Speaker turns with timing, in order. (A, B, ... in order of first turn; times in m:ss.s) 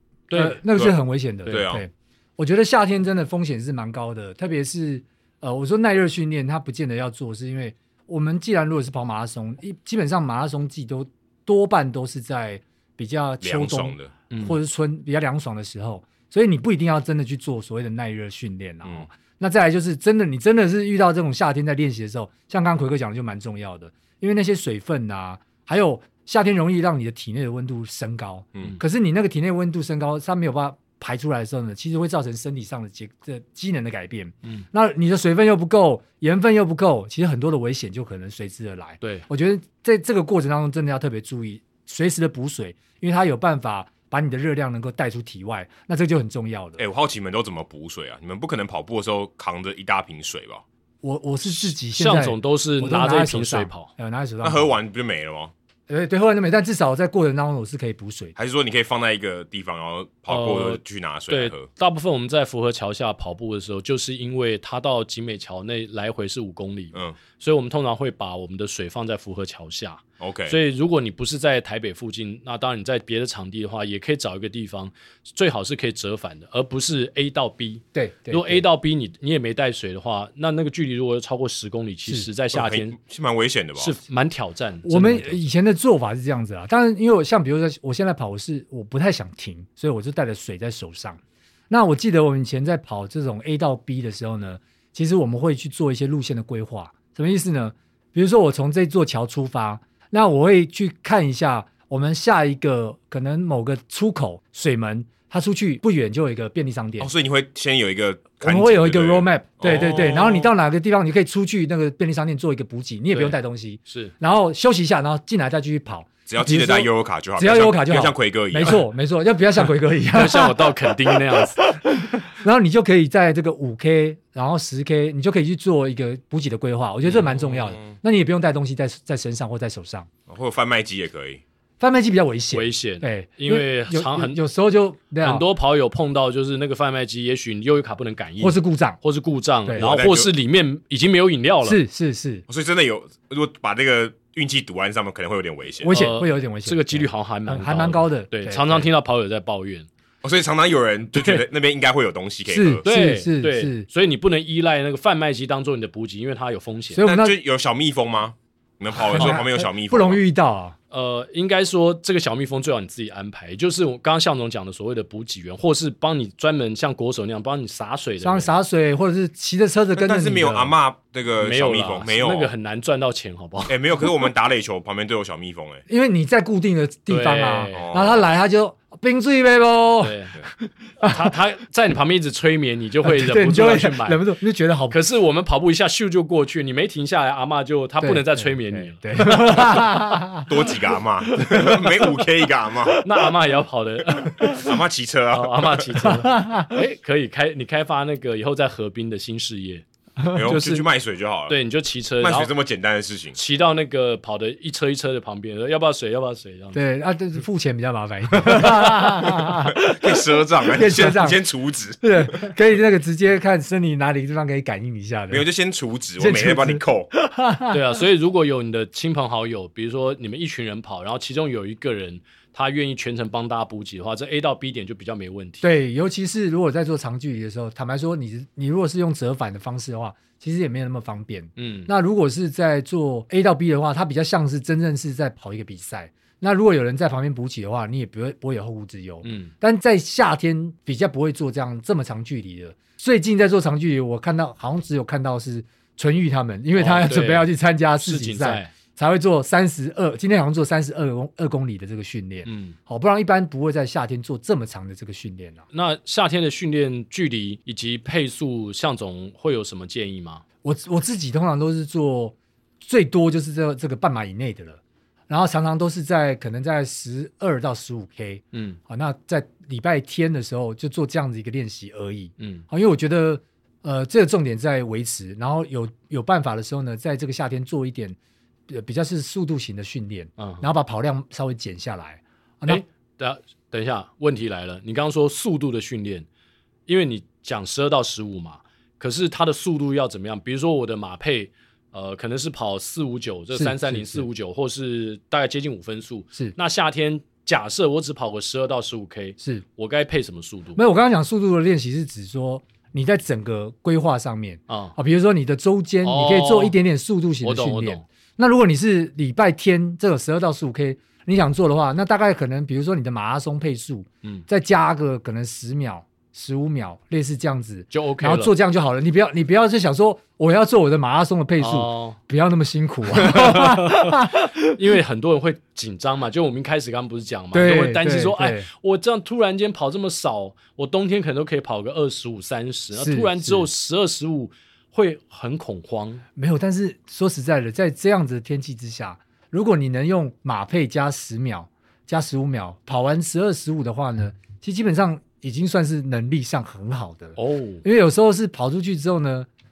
0:00.3-0:00.6 A
0:00.4-0:46.8 B
0:01.5-0:01.8 C
0:13.4-0:14.1 C
0:14.3-0:14.6 A
0:46.8-0:50.6 C
0:51.0-0:54.7 B
0:51.5-0:53.9 A
0:54.4-0:55.5 C
0:55.9-0:58.3 B
0:58.4-1:01.7 C
1:00.3-1:23.0 A
1:10.2-1:10.6 C
1:17.9-1:18.6 B
1:22.5-1:24.0 C
1:23.8-1:25.4 A
1:24.8-1:31.2 B
1:31.7-1:47.1 B
1:47.0-1:50.5 C
1:48.4-2:10.1 B
1:53.1-1:54.1 A
1:56.3-1:58.8 C
2:00.1-2:01.6 A
2:07.0-2:07.3 A
2:07.6-2:07.9 C
2:10.3-2:11.4 C
2:11.8-2:15.4 B
2:12.5-2:14.4 A
2:15.2-2:21.8 A
2:18.4-2:19.0 B
2:19.6-2:20.0 B
2:19.8-2:20.3 C
2:21.6-2:22.4 B
2:22.5-2:25.9 C
2:25.8-2:28.9 B
2:25.9-2:29.9 A
2:30.2-2:32.8 C
2:32.5-2:33.9 B
2:32.8-2:37.0 A
2:36.9-2:37.4 B
2:37.0-2:40.2 C
2:38.9-2:40.8 B
2:40.9-2:48.5 A
2:48.2-2:50.8 B
2:49.9-2:52.5 C
2:51.4-2:53.8 A
2:53.7-2:55.8 C
2:55.9-3:01.3 B
2:57.1-2:57.9 A
2:57.7-2:58.3 C
3:00.0-3:00.4 A
3:01.0-3:04.2 A
3:03.0-3:05.0 B
3:04.9-3:09.7 A
3:08.0-3:10.8 B
3:10.4-3:13.0 C
3:11.4-3:13.0 B
3:13.0-3:14.7 A
3:14.2-3:14.7 B
3:14.4-3:16.1 C
3:15.3-3:19.8 A
3:16.1-3:16.7 B
3:20.3-3:21.6 C
3:20.4-3:20.8 A
3:21.5-3:22.5 A
3:22.2-3:23.4 C
3:23.4-3:26.8 A
3:26.7-3:31.4 B
3:29.5-3:32.6 C
3:32.0-3:35.4 B
3:35.3-3:37.1 C
3:36.2-3:38.0 B
3:37.7-3:45.6 A
3:45.6-4:15.6 B
3:51.6-3:51.9 A
3:59.2-3:59.5 A
4:06.8-4:08.7 A
4:12.4-4:12.8 A
4:15.7-4:20.4 A
4:20.6-4:38.2 B
4:28.5-4:28.8 A
4:32.4-4:32.6 A
4:38.7-4:42.8 B
4:40.4-4:40.6 A
4:42.6-4:46.2 A
4:46.9-5:00.8 A
4:53.5-4:54.2 B
5:00.8-5:24.7 B
5:04.7-5:05.0 A
5:06.0-5:06.8 A
5:07.4-5:08.0 A
5:17.9-5:18.5 A
5:21.6-5:22.2 A
5:23.1-5:36.2 A
5:27.5-5:28.7 B
5:32.9-5:33.7 B
5:36.4-5:49.5 B
5:47.4-5:47.8 A